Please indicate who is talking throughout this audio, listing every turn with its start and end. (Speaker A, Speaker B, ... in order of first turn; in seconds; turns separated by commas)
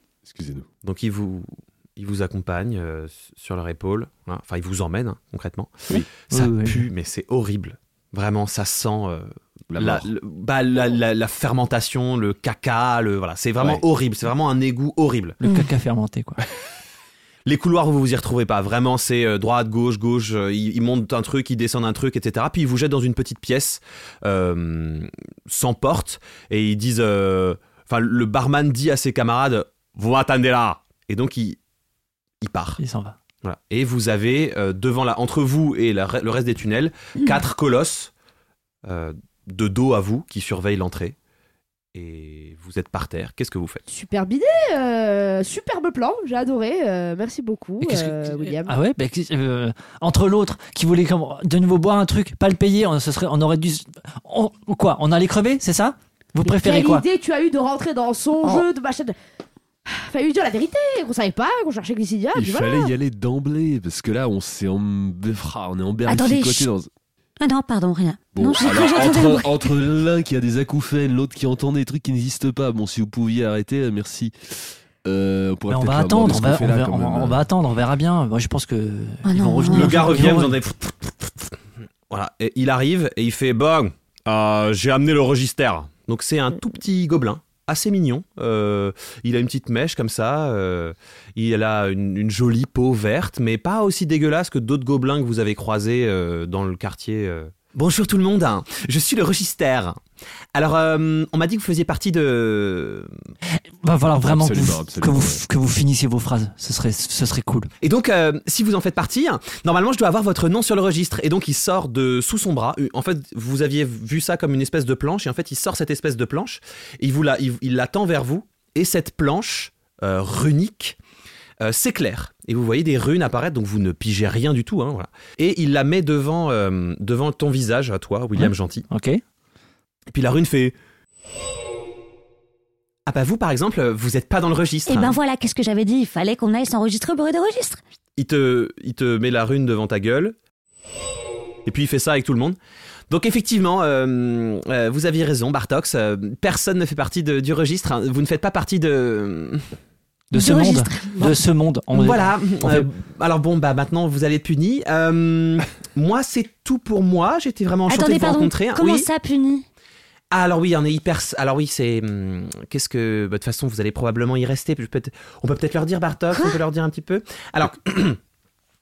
Speaker A: 0.2-0.7, Speaker B: 0.8-15.4, Speaker C: 6.3-6.8, Speaker A: 9.7-10.1, Speaker C: 15.4-16.4, Speaker D: 15.4-15.7, Speaker B: 17.4-31.6, Speaker B: 32.4-32.8, Speaker C: 32.8-33.1, Speaker B: 33.4-38.1, Speaker B: 38.8-41.1, Speaker B: 41.9-43.8, Speaker E: 43.9-48.8, Speaker C: 47.8-57.0, Speaker E: 56.4-59.1, Speaker E: 59.9-62.9, Speaker A: 62.3-66.9, Speaker D: 66.1-66.7, Speaker D: 67.4-69.7, Speaker A: 68.3-77.4, Speaker C: 75.7-80.5, Speaker D: 79.2-80.1, Speaker B: 79.7-81.5, Speaker B: 82.1-100.0, Speaker B: 100.5-103.1, Speaker C: 103.8-107.7, Speaker A: 104.2-105.4, Speaker B: 107.8-121.0, Speaker B: 121.6-128.8, Speaker C: 128.4-129.2, Speaker B: 130.1-130.7, Speaker B: 133.1-135.2, Speaker D: 134.9-137.8, Speaker B: 138.2-140.3, Speaker B: 141.7-142.6, Speaker B: 143.1-149.7, Speaker C: 150.3-152.9, Speaker D: 150.3-151.4, Speaker B: 151.9-159.1, Speaker D: 157.9-159.7, Speaker B: 160.3-168.2, Speaker D: 166.3-166.6